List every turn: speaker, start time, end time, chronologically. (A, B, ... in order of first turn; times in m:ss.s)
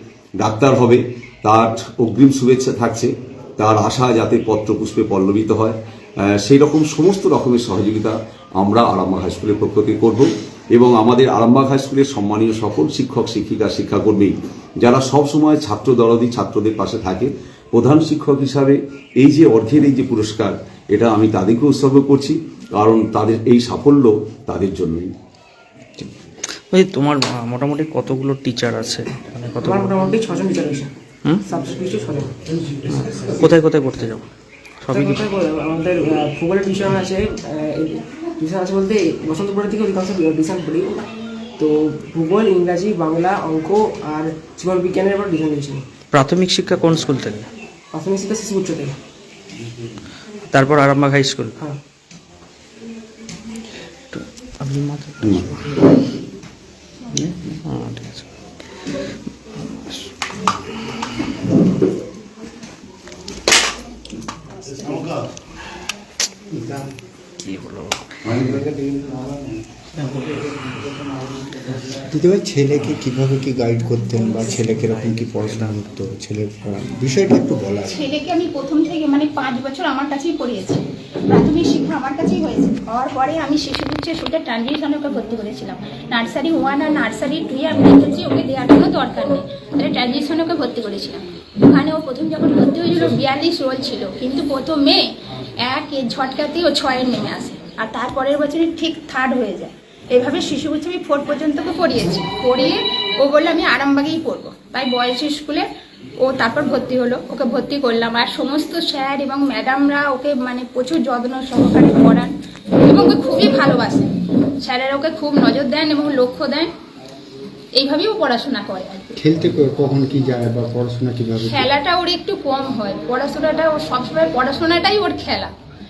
0:00.4-0:25.1 A
0:26.7-0:30.0 B
0:29.6-0:30.9 C
0:31.5-0:32.3 C
0:32.7-0:33.5 D
0:32.9-0:34.2 B
0:34.8-0:35.2 B
0:34.9-0:41.0 C
0:41.6-0:45.8 C
0:46.1-0:47.5 B
0:47.9-0:48.9 C
0:50.5-0:51.5 B
0:54.1-0:55.6 B
0:57.1-0:58.2 B
0:59.8-1:00.1 B
1:06.6-1:06.8 D
1:07.4-1:08.0 B
1:08.3-1:09.4 D
1:10.0-1:10.4 B
1:11.8-1:18.1 D
1:14.6-1:15.8 B
1:17.8-1:35.1 E
1:35.6-1:45.6 E
1:46.2-1:52.3 E
1:52.8-1:56.7 E
1:57.8-1:59.1 E
1:59.2-2:01.7 D
2:01.4-2:05.5 E